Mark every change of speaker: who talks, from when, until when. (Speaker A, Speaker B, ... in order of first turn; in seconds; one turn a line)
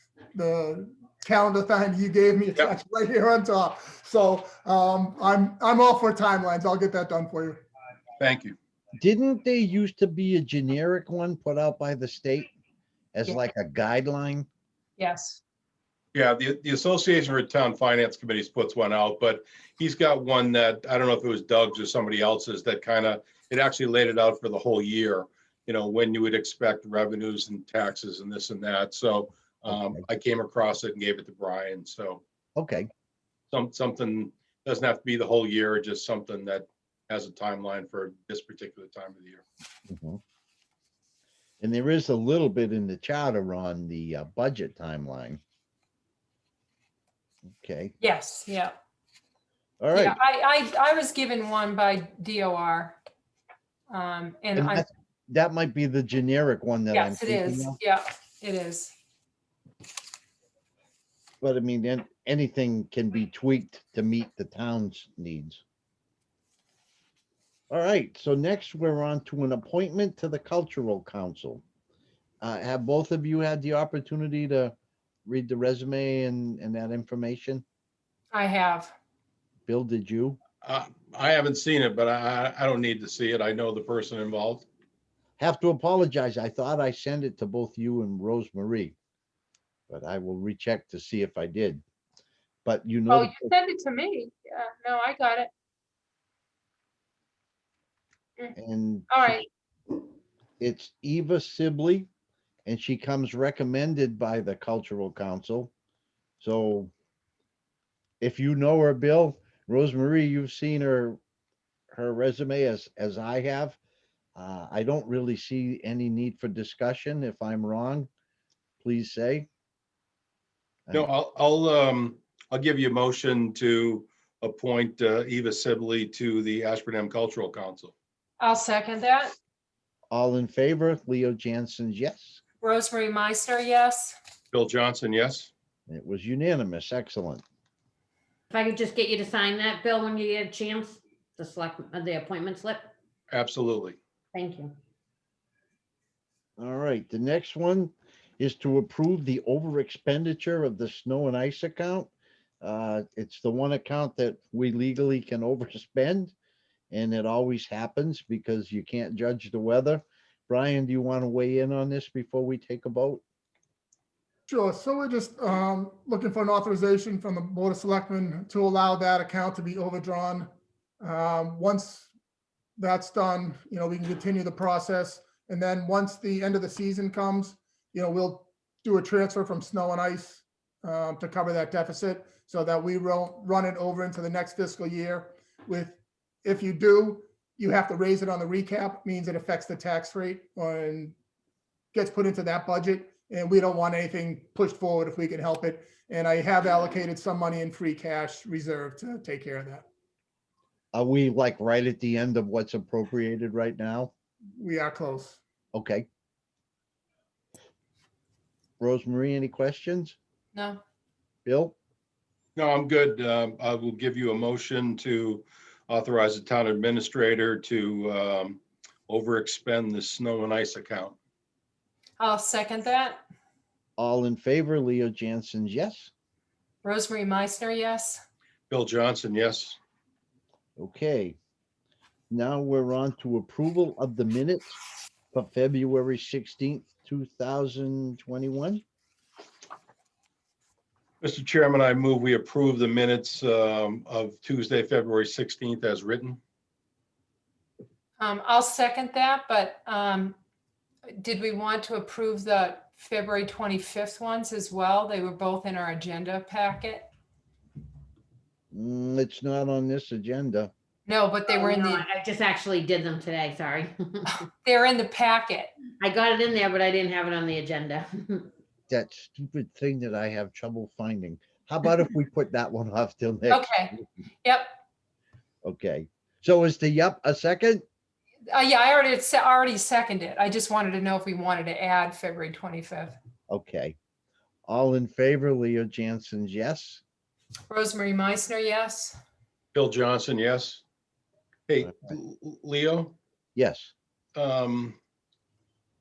Speaker A: 0.3-7.6
Speaker B: 8.2-8.6
Speaker C: 9.0-12.5
Speaker C: 13.2-14.5
Speaker D: 15.0-15.4
Speaker B: 16.1-32.2
Speaker C: 29.7-30.0
Speaker C: 32.6-32.9
Speaker B: 33.5-39.4
Speaker C: 39.9-40.2
Speaker C: 41.6-45.4
Speaker C: 47.5-47.9
Speaker D: 48.0-48.8
Speaker C: 49.8-50.2
Speaker D: 50.0-53.0
Speaker D: 53.9-54.9
Speaker C: 54.5-57.8
Speaker D: 56.9-59.0
Speaker C: 61.4-65.6
Speaker C: 67.7-71.6
Speaker C: 72.4-74.7
Speaker C: 75.3-77.6
Speaker D: 78.3-78.9
Speaker C: 79.7-80.4
Speaker B: 80.6-84.7
Speaker C: 85.4-89.0
Speaker C: 89.9-91.8
Speaker C: 92.7-93.5
Speaker D: 93.1-95.5
Speaker C: 98.6-99.4
Speaker D: 99.1-99.5
Speaker C: 100.6-102.1
Speaker C: 102.7-105.7
Speaker C: 106.4-106.9
Speaker C: 108.2-111.2
Speaker C: 111.9-113.8
Speaker C: 114.4-118.1
Speaker C: 118.8-119.5
Speaker B: 120.9-127.9
Speaker D: 128.4-129.3
Speaker C: 130.1-132.4
Speaker D: 132.6-134.2
Speaker B: 134.5-135.5
Speaker C: 135.9-137.4
Speaker E: 138.5-142.9
Speaker B: 143.3-144.0
Speaker E: 144.3-144.8
Speaker C: 146.6-152.1
Speaker C: 152.6-156.3
Speaker C: 156.9-163.2
Speaker A: 164.5-170.5
Speaker A: 171.0-172.1
Speaker A: 172.8-191.2
Speaker A: 191.9-199.9
Speaker C: 200.9-204.1
Speaker A: 204.6-205.4
Speaker C: 205.7-206.1
Speaker C: 208.8-210.2
Speaker D: 210.5-210.8
Speaker C: 211.4-211.8
Speaker B: 212.6-221.2
Speaker D: 222.2-223.2
Speaker C: 224.0-226.1
Speaker D: 226.8-228.2
Speaker B: 228.7-229.8
Speaker C: 230.8-231.4
Speaker C: 232.3-234.8
Speaker C: 235.3-238.8
Speaker B: 241.2-246.4
Speaker D: 248.2-250.3
Speaker D: 251.2-257.1
Speaker C: 258.7-260.7
Speaker D: 261.1-262.0
Speaker E: 261.5-264.4
Speaker D: 264.6-265.8
Speaker E: 266.0-268.5
Speaker C: 268.9-274.0
Speaker D: 273.5-274.7
Speaker C: 275.6-277.8
Speaker D: 278.5-283.2
Speaker C: 283.5-284.0
Speaker C: 284.7-287.0
Speaker D: 287.7-289.2
Speaker B: 289.7-290.8
Speaker B: 291.7-293.1
Speaker C: 293.6-293.9
Speaker B: 294.4-295.0